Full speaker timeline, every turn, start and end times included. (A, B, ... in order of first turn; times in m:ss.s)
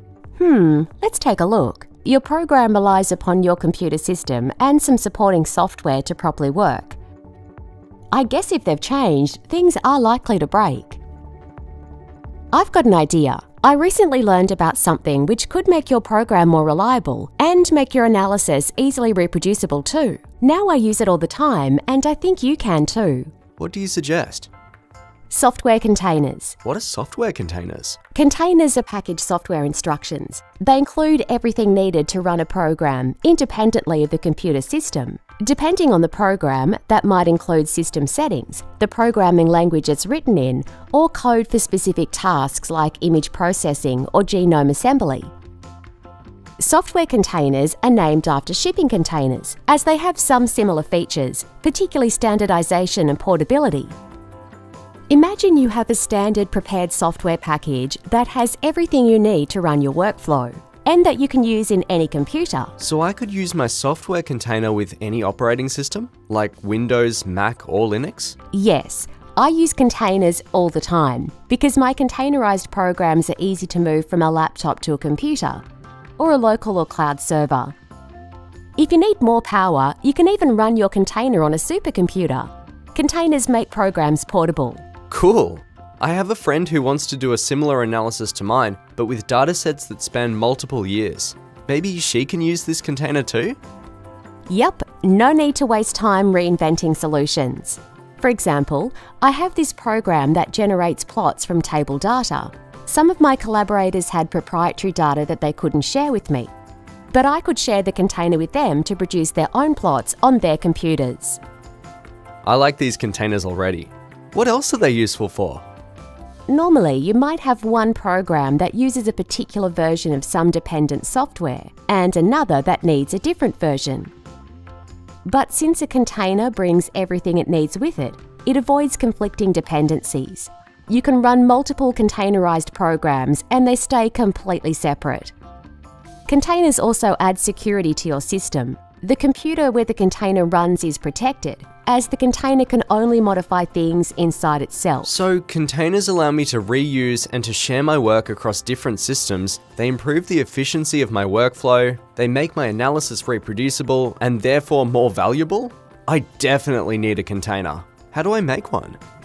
0:00.4-0:07.0 A
0:08.1-0:11.0 A
0:12.5-0:23.3 A
0:23.6-0:24.5 B
0:25.3-0:26.6 A
0:26.6-0:28.0 B
0:28.1-0:45.3 A
0:46.6-0:54.0 A
0:55.1-1:02.8 A
1:02.8-1:08.4 B
1:08.5-1:15.6 A
1:16.2-1:17.8 A
1:18.8-1:24.9 A
1:25.1-1:33.6 B
1:34.5-1:46.5 A
1:47.1-1:51.4 A
1:52.4-1:55.6 B
1:56.5-2:04.1 A
2:05.2-2:15.3 A
2:16.3-2:25.1 A
2:25.0-2:39.0 B